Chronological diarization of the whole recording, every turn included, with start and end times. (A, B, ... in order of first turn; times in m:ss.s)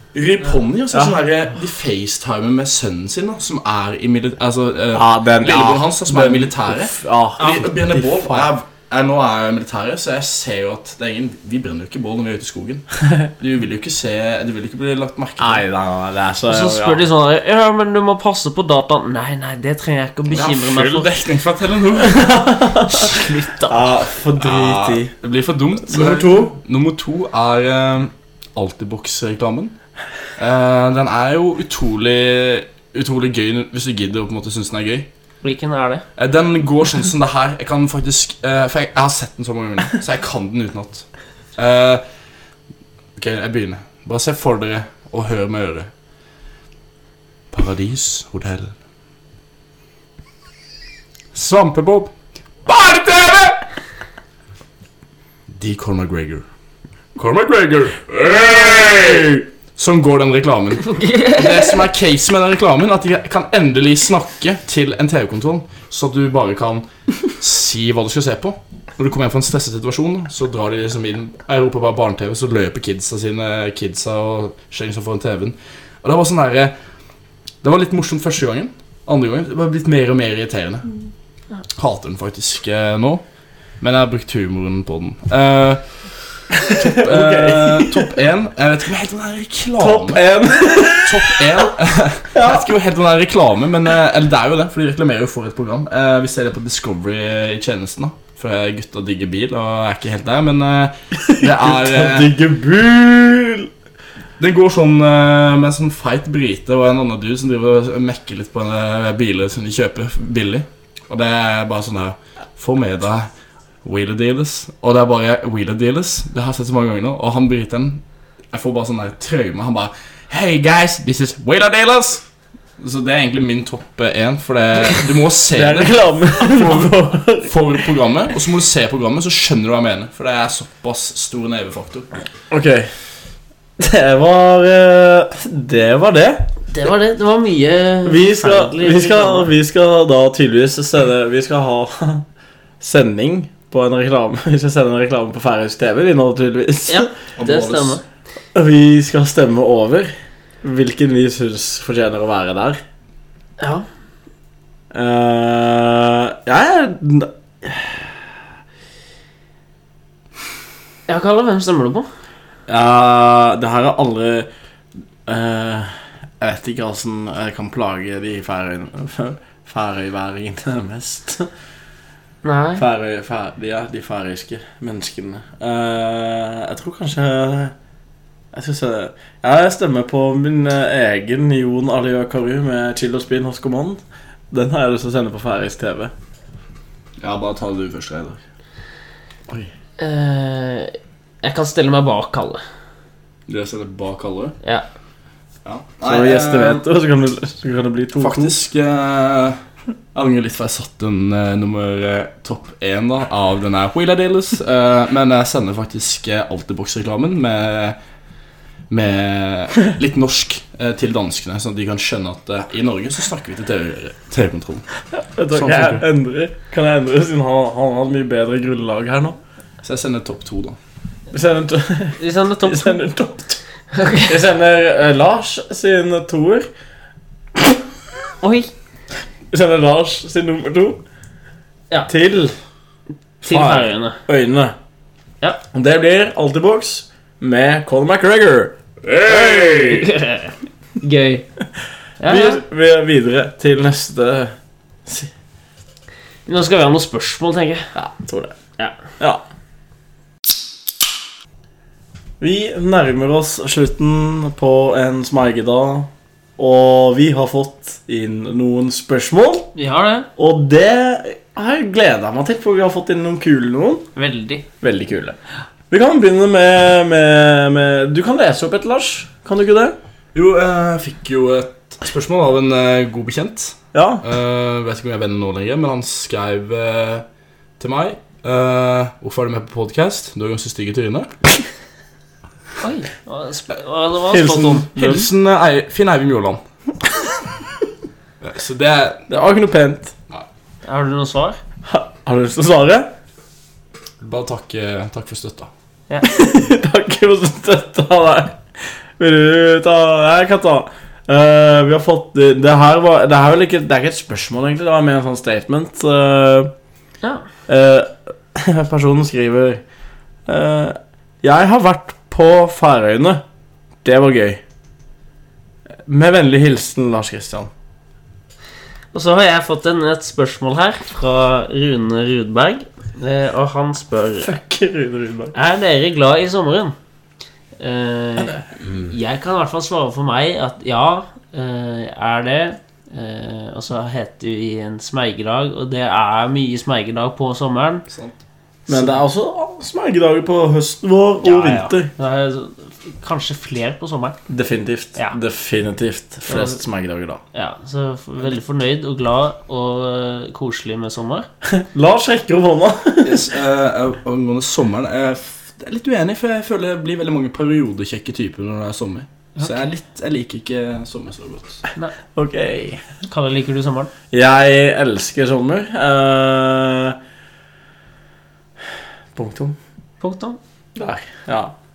0:00.1-0:12.9 A
0:04.9-0:08.5 B
0:13.4-0:15.6 A
0:15.4-0:17.0 B
0:16.5-0:21.1 C
0:20.3-0:22.4 A
0:22.0-0:25.1 B
0:22.9-0:23.9 C
0:24.3-0:29.7 A
0:25.9-0:26.5 B
0:30.4-0:35.1 A
0:35.4-0:36.0 C
0:36.2-0:42.0 A
0:43.2-0:45.9 A
0:47.5-0:48.7 A
0:51.3-0:52.1 A
0:52.6-0:53.6 A
0:55.5-0:56.4 A
0:57.2-1:16.7 A
1:00.8-1:01.8 C
1:17.6-1:20.9 A
1:21.7-1:23.2 A
1:23.8-1:25.8 A
1:26.6-1:28.2 B
1:26.7-1:42.3 A
1:29.8-1:31.7 B
1:32.3-1:32.7 B
1:41.2-1:43.7 B
1:44.4-1:53.3 A
1:53.8-2:02.2 A
2:02.8-2:12.2 A
2:05.5-2:07.9 B
2:12.5-2:12.9 B
2:13.8-2:16.5 B
2:16.7-2:19.5 C
2:18.0-2:22.2 B
2:22.8-2:27.1 B
2:26.9-2:28.0 C
2:27.4-2:28.0 A
2:28.5-2:30.1 B
2:30.6-2:32.8 B
2:33.6-2:33.8 C
2:34.9-2:38.2 B
2:41.1-2:42.1 C
2:42.7-2:44.5 B
2:45.3-2:51.5 B
2:52.4-2:52.8 C
2:52.8-2:57.7 B
2:58.5-3:06.1 B
3:07.2-3:08.4 A
3:10.0-3:12.6 C
3:13.5-3:14.6 A
3:15.6-3:16.8 A
3:16.0-3:18.5 B
3:18.2-3:19.6 A
3:20.1-3:28.0 A
3:28.9-3:34.8 A
3:35.2-3:39.4 B
3:35.5-3:36.0 A
3:39.8-3:40.8 A
3:41.3-3:46.7 B
3:42.2-3:43.0 C
3:44.0-3:44.2 C
3:48.4-3:48.7 C
3:49.5-3:51.0 B
3:52.1-3:52.5 B
3:53.4-3:54.2 C
3:53.4-3:54.7 B
3:55.7-4:00.1 B
3:59.2-3:59.6 A
3:59.3-4:01.5 C
4:02.2-4:02.6 C
4:02.2-4:04.5 B
4:05.0-4:05.3 B
4:06.4-4:07.8 C
4:07.9-4:08.5 B
4:12.4-4:19.7 B
4:19.7-4:20.3 C
4:20.4-4:24.0 B
4:24.2-4:24.6 C
4:24.8-4:25.4 B
4:25.9-4:30.0 B
4:30.3-4:37.2 A
4:33.9-4:34.2 B
4:37.8-4:41.3 A
4:42.8-4:44.9 C
4:44.3-4:45.3 B
4:45.0-4:46.6 A
4:48.4-4:49.2 A
4:49.3-4:50.1 B
4:50.8-4:51.6 C
4:51.8-4:53.1 B
4:54.2-4:55.7 A
4:56.2-4:58.6 B
4:59.2-5:06.7 B
5:07.7-5:09.8 B
5:10.5-5:13.4 B
5:14.0-5:14.6 B
5:16.0-5:17.7 B
5:19.1-5:24.6 C
5:24.4-5:25.5 B
5:25.5-5:26.9 C
5:27.8-5:38.0 C
5:38.1-5:38.3 A
5:38.9-5:42.1 B
5:38.9-5:39.2 C
5:41.4-5:44.4 C
5:44.5-5:47.4 B
5:46.5-5:46.8 C
5:47.5-5:51.5 C
5:51.7-5:53.4 B
5:53.2-6:01.8 A
6:02.3-6:03.0 B
6:03.2-6:04.1 C
6:04.3-6:07.2 B
6:09.3-6:09.8 B
6:10.2-6:10.6 C
6:11.0-6:11.7 B